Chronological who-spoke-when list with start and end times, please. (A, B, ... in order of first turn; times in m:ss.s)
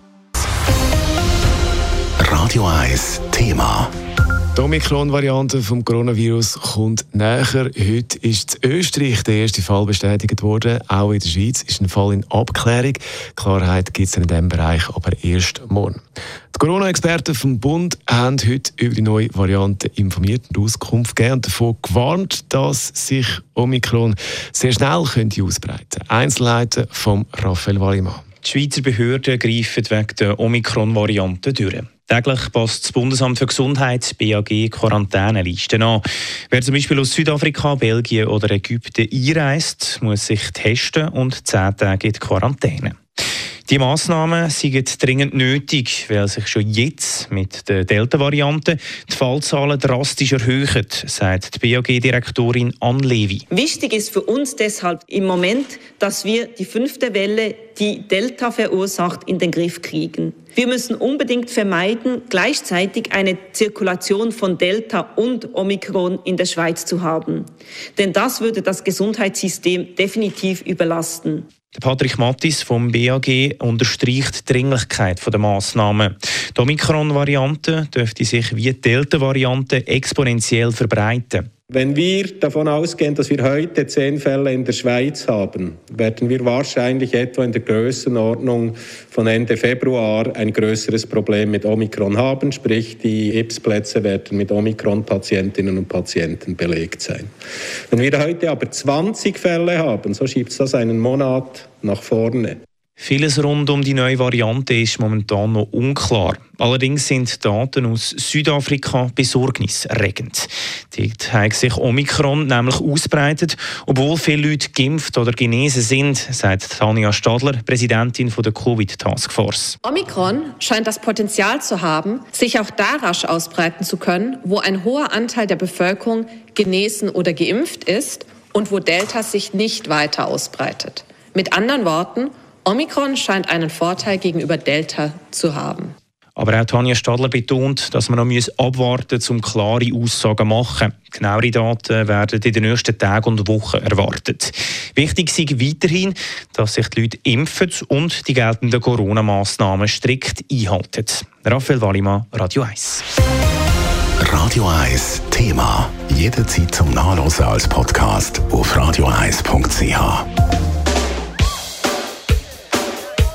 0:02.2-0:03.9 A
0:04.6-0:16.0 B
0:16.5-0:28.2 B
0:28.4-0:43.0 C
0:43.7-0:53.4 C
0:53.5-1:11.5 D
1:11.7-1:21.5 C
1:21.7-1:37.3 E
1:37.9-1:42.6 E
1:43.0-1:59.8 C
1:59.8-2:15.9 F
2:16.4-2:33.0 C
2:34.2-2:40.2 A